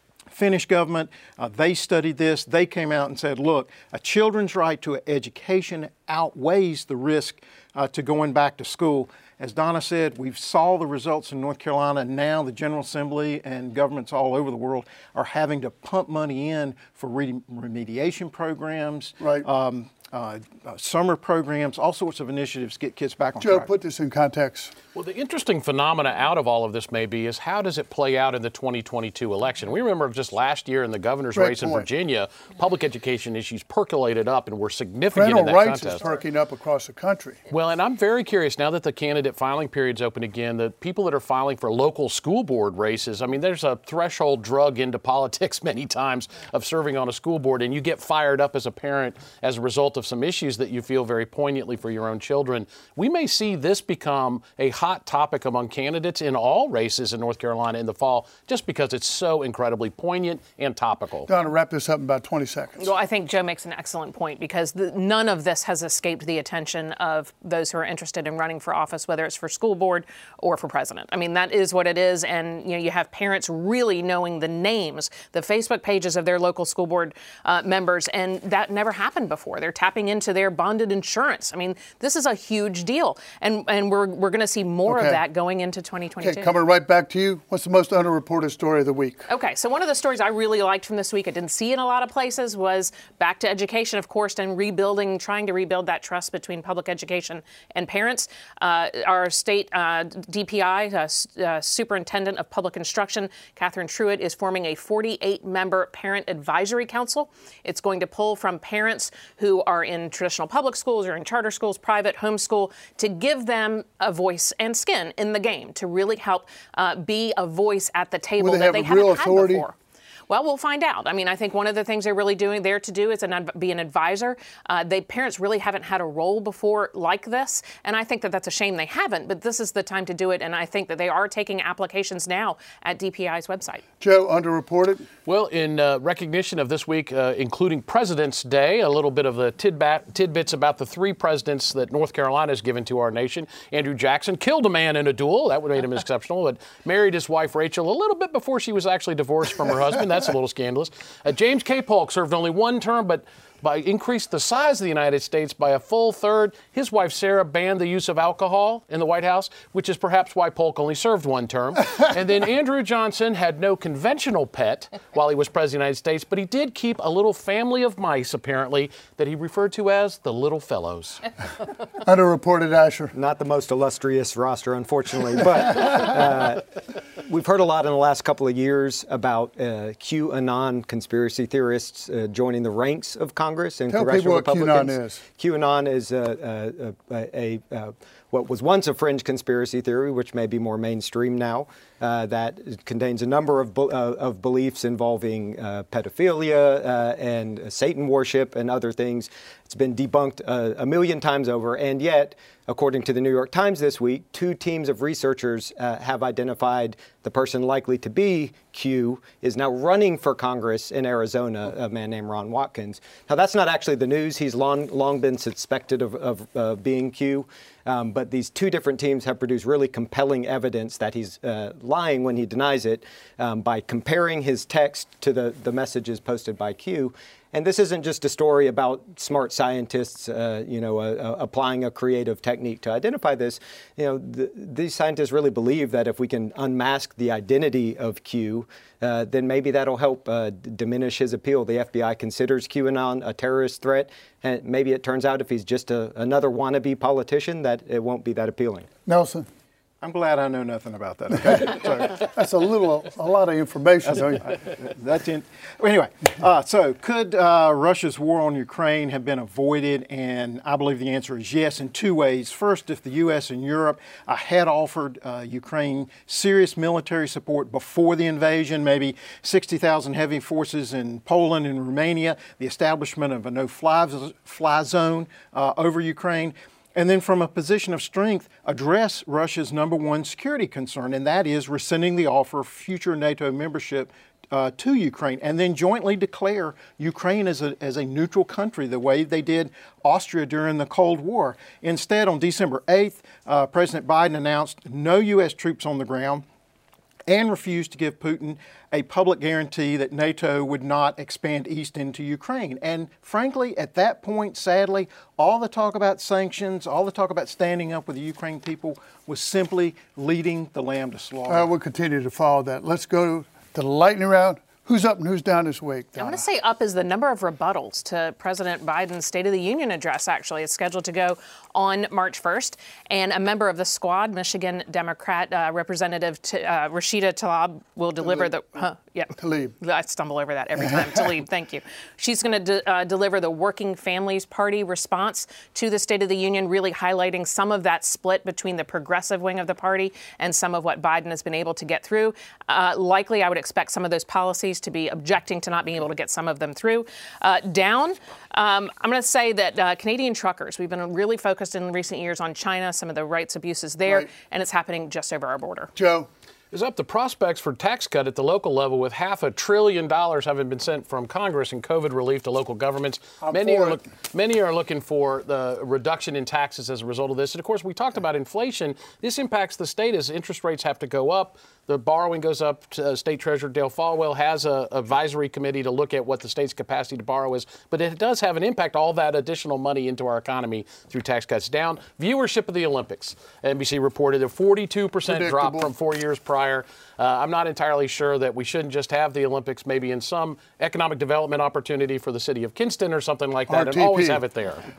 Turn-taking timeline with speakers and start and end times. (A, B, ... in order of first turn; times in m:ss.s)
0:00.3-0:23.7 A
0:19.2-0:19.5 B
0:23.4-0:24.7 B
0:25.0-0:36.0 C
0:31.3-0:31.9 B
0:35.1-0:37.4 B
0:37.5-1:01.3 C
1:01.3-1:02.9 B
1:02.8-1:26.5 D
1:24.9-1:25.2 B
1:26.2-1:29.3 B
1:29.3-1:59.7 D
1:58.4-1:59.6 B
2:00.3-2:13.8 D
2:14.0-2:15.1 B
2:15.3-2:51.2 C
2:52.0-2:53.1 B
2:53.1-4:08.9 E
3:03.9-3:05.2 B
4:09.1-4:09.5 B
4:10.0-4:12.2 A
4:12.2-4:14.4 B
4:14.0-4:56.4 A
4:57.3-5:11.7 A
5:11.5-5:16.4 B
5:16.2-5:55.9 D
5:28.2-5:28.5 B
5:29.4-5:29.8 B
5:30.8-5:31.2 B
5:56.0-5:56.3 B
5:56.7-6:34.9 C
6:03.4-6:04.0 B
6:25.3-6:25.9 B
6:33.7-6:34.4 B